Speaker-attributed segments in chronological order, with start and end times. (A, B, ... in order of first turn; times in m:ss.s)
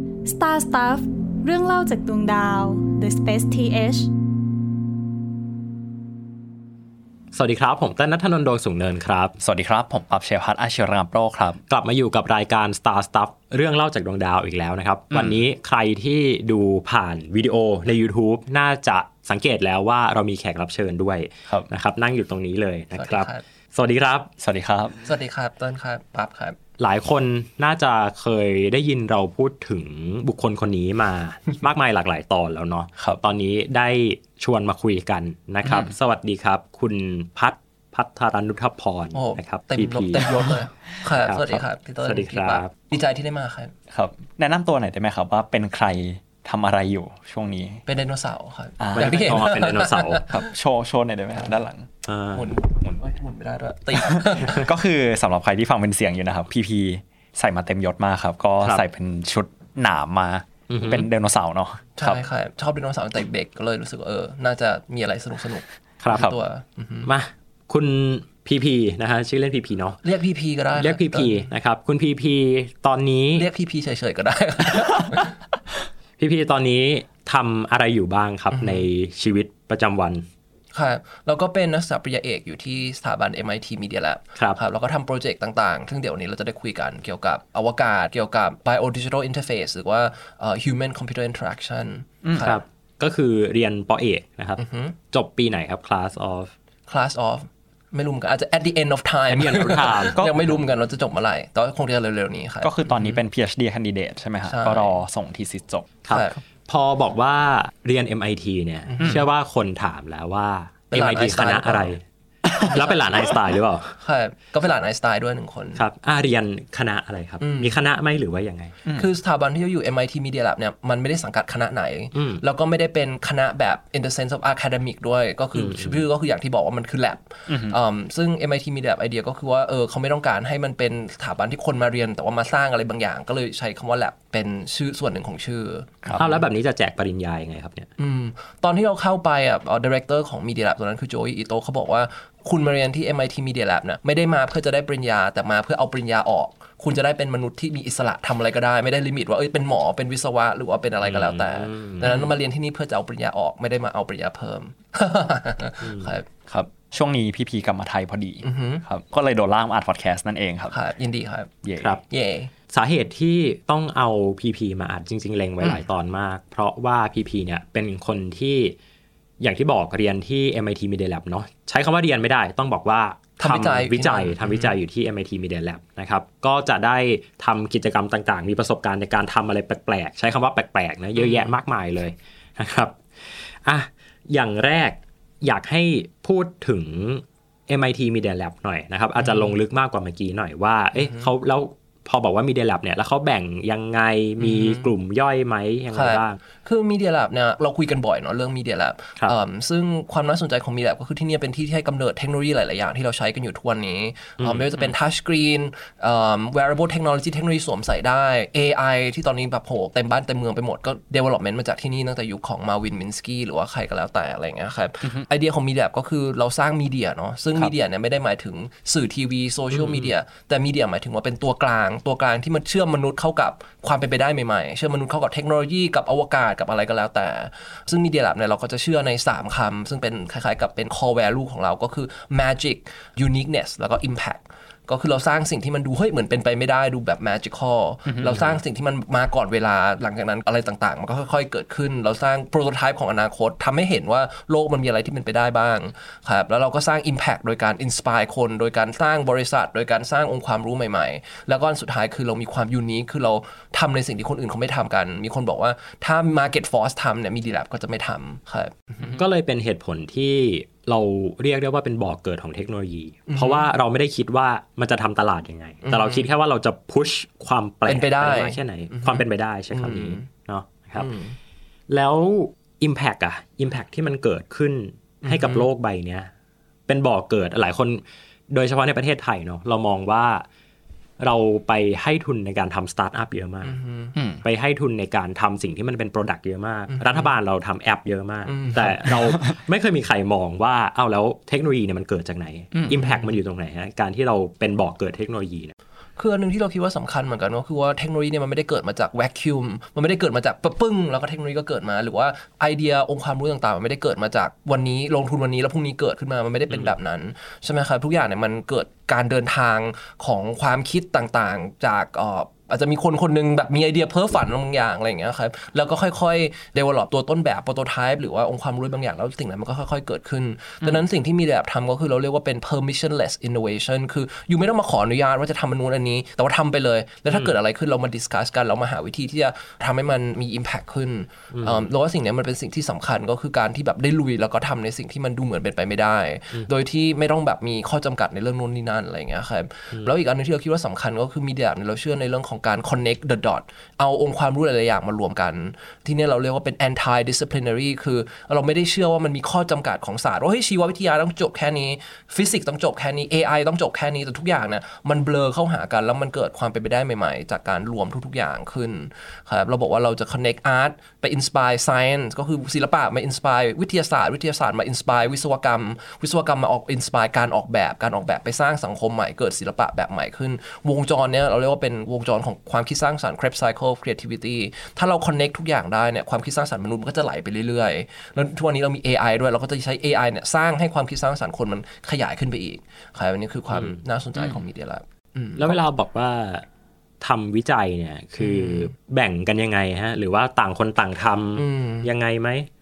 0:00.2-0:04.1 A
0:07.3-0:09.4 B
0:09.4-0:11.6 C
0:11.7-0:24.3 B
0:15.1-0:15.4 C
0:22.9-0:23.4 D
0:24.4-0:25.0 C
0:25.0-0:26.6 D
0:26.8-0:40.5 B
0:35.6-0:35.9 C
0:39.1-0:43.7 D
0:41.2-0:42.7 B
0:43.9-0:47.8 C
0:47.8-0:50.4 D
0:48.8-0:49.5 C
0:48.9-0:50.2 B
0:50.3-0:51.9 C
0:52.0-0:52.5 B
0:52.3-0:54.6 D
0:53.9-1:02.2 C
1:00.7-1:01.1 B
1:02.0-1:07.1 D
1:06.0-1:06.3 B
1:07.0-1:10.0 B
1:10.0-1:11.5 D
1:10.7-1:13.5 B
1:13.4-1:15.3 D
1:16.2-1:20.2 B
1:18.5-1:18.8 D
1:20.7-1:32.6 D
1:32.2-1:32.5 C
1:32.4-1:36.5 B
1:34.6-1:34.9 D
1:36.9-1:43.2 D
1:39.3-1:40.2 B
1:40.1-1:40.5 C
1:42.6-1:46.0 C
1:44.4-1:45.0 D
1:46.0-1:52.0 B
1:46.1-1:46.4 D
1:48.9-1:49.2 D
1:50.9-1:51.9 D
1:52.6-1:54.0 B
1:52.6-1:53.3 D
1:54.0-1:55.8 D
1:55.8-1:58.7 B
1:57.4-1:57.8 D
1:58.9-2:16.3 D
2:02.1-2:02.4 B
2:05.5-2:06.0 B
2:07.5-2:07.8 C
2:16.0-2:16.3 C
2:16.2-2:17.9 B
2:18.0-2:36.3 D
2:31.0-2:32.3 B
2:35.8-2:36.1 B
2:36.5-2:40.8 C
2:38.4-2:38.8 D
2:40.7-2:41.5 D
2:41.6-2:42.0 C
2:42.1-2:42.5 D
2:42.7-2:48.7 B
2:49.4-3:16.4 B
2:53.4-2:54.7 D
3:01.2-3:01.6 D
3:09.2-3:09.6 D
3:10.9-3:11.3 D
3:14.4-3:14.9 D
3:15.9-4:19.2 D
3:24.4-3:24.6 B
3:58.0-3:58.4 C
4:19.0-4:31.1 B
4:23.3-4:23.7 D
4:25.8-4:26.3 D
4:27.8-4:30.2 D
4:31.0-4:31.4 D
4:31.9-4:36.3 B
4:35.2-4:35.7 D
4:36.9-4:40.4 B
4:41.2-4:43.8 B
4:43.6-4:44.2 D
4:44.2-4:44.4 C
4:44.4-4:55.7 B
4:46.9-4:47.3 D
4:48.4-4:49.3 D
4:52.9-4:53.4 D
4:56.2-6:25.8 D
5:06.7-5:06.9 B
5:31.5-5:31.9 B
6:23.7-6:24.0 B
6:25.6-6:26.6 B
6:27.2-6:32.7 B
6:28.4-6:28.9 D
6:31.6-6:32.1 D